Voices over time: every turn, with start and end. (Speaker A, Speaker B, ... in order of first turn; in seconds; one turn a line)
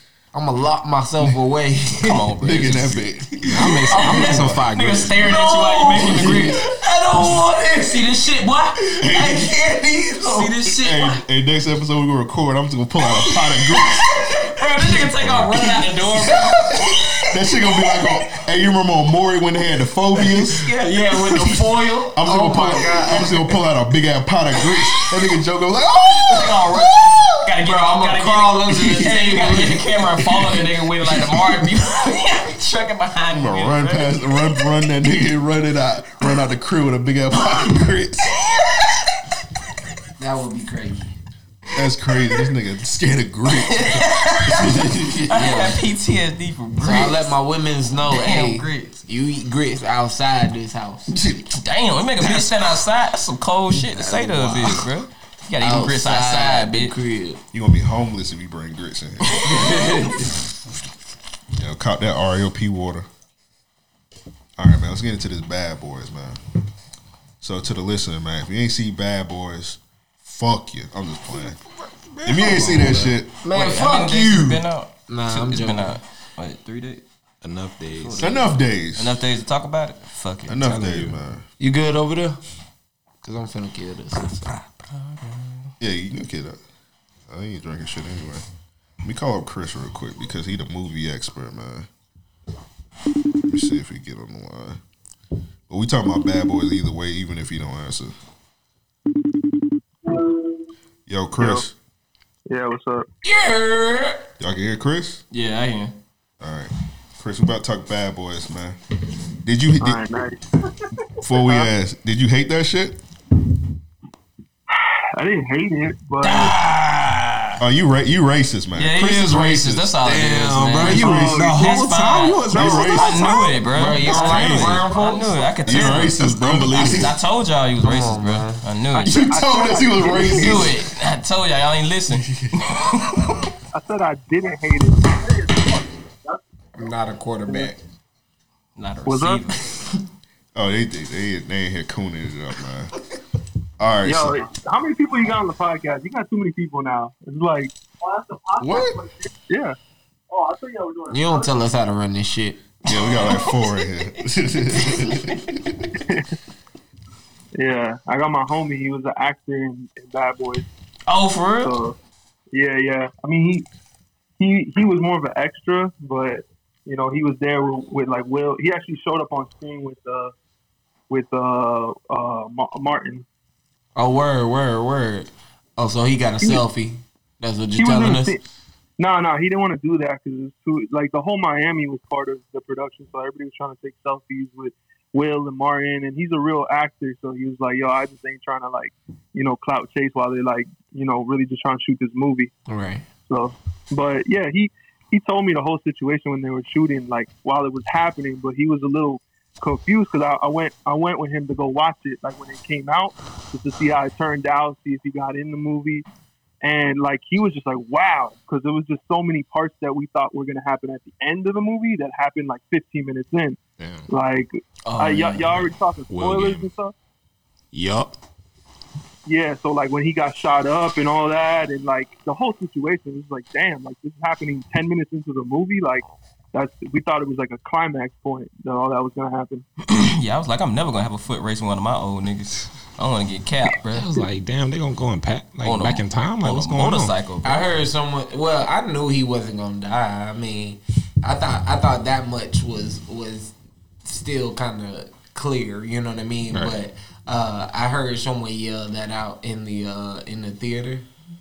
Speaker A: 0.3-2.2
Speaker B: 2.0-6.6
Speaker C: 2.4-3.4
Speaker D: 3.5-5.2
Speaker A: 3.9-4.4
Speaker C: 4.0-4.6
Speaker A: 5.2-10.6
Speaker B: 7.2-9.4
Speaker B: 10.2-11.2
Speaker C: 10.7-14.2
Speaker B: 14.4-17.2
Speaker C: 14.9-15.8
Speaker C: 17.3-20.7
Speaker B: 20.4-21.4
Speaker A: 20.8-23.5
Speaker C: 21.3-21.6
Speaker C: 22.1-27.2
Speaker B: 26.2-34.1
Speaker A: 27.6-29.9
Speaker C: 33.3-38.4
Speaker A: 40.2-41.1
Speaker C: 41.7-45.7
Speaker B: 43.5-47.3
Speaker A: 46.8-51.1
Speaker B: 48.1-48.9
Speaker C: 51.1-51.4
Speaker B: 51.5-56.9
Speaker A: 54.0-54.8
Speaker A: 55.6-57.4
Speaker C: 57.5-59.6
Speaker B: 59.4-59.9
Speaker A: 59.5-60.2
Speaker C: 61.5-63.0
Speaker C: 64.6-66.4
Speaker C: 67.4-71.6
Speaker D: 71.4-73.2
Speaker C: 72.2-73.3
Speaker A: 73.4-76.0
Speaker B: 73.5-77.0
Speaker D: 77.4-78.5
Speaker B: 77.9-80.7
Speaker C: 78.2-79.2
Speaker C: 80.5-81.4
Speaker D: 80.6-81.1
Speaker A: 81.6-82.4
Speaker A: 83.2-84.5
Speaker B: 84.4-85.7
Speaker C: 85.8-86.6
Speaker C: 87.3-88.4
Speaker C: 89.0-91.9
Speaker C: 93.5-94.8
Speaker C: 95.7-98.1
Speaker E: 100.0-100.5
Speaker C: 101.1-101.7
Speaker E: 101.4-101.6
Speaker E: 102.5-103.0
Speaker A: 103.2-104.2
Speaker C: 104.4-105.2
Speaker B: 105.3-105.9
Speaker C: 106.4-108.8
Speaker C: 109.4-110.0
Speaker E: 109.8-110.4
Speaker C: 111.2-113.0
Speaker E: 111.3-111.7
Speaker E: 114.7-116.5
Speaker B: 116.2-117.6
Speaker C: 117.6-119.9
Speaker B: 118.8-129.2
Speaker D: 120.0-124.8
Speaker C: 120.8-121.5
Speaker E: 121.0-121.6
Speaker C: 122.5-123.6
Speaker E: 122.5-123.0
Speaker A: 123.7-125.3
Speaker E: 124.9-125.5
Speaker C: 125.6-127.1
Speaker D: 125.9-127.1
Speaker A: 127.8-128.6
Speaker E: 128.9-130.6
Speaker C: 129.0-130.8
Speaker B: 130.1-133.5
Speaker C: 132.1-132.5
Speaker E: 133.7-136.4
Speaker A: 136.8-137.8
Speaker B: 138.8-139.9
Speaker E: 139.1-139.4
Speaker C: 140.5-142.9
Speaker C: 143.8-144.4
Speaker E: 144.0-149.8
Speaker C: 148.6-149.0
Speaker E: 150.3-151.5
Speaker A: 151.1-152.6
Speaker C: 152.8-155.8
Speaker B: 152.9-153.8
Speaker B: 154.8-155.4
Speaker E: 156.1-156.3
Speaker E: 157.6-160.7
Speaker B: 161.1-161.8
Speaker E: 161.6-161.9
Speaker E: 162.5-163.7
Speaker E: 164.4-170.3
Speaker E: 171.1-173.2
Speaker A: 173.9-178.3
Speaker E: 177.8-178.4
Speaker E: 179.0-192.5
Speaker A: 192.7-193.1
Speaker E: 193.3-206.0
Speaker E: 206.6-213.6
Speaker D: 213.8-214.1
Speaker E: 214.1-216.9
Speaker B: 214.9-215.7
Speaker D: 216.1-216.7
Speaker D: 217.7-218.2
Speaker E: 219.2-229.6
Speaker B: 229.8-234.1
Speaker D: 233.9-237.1
Speaker B: 235.6-237.7
Speaker A: 237.4-243.5
Speaker A: 244.0-251.1
Speaker D: 246.5-246.8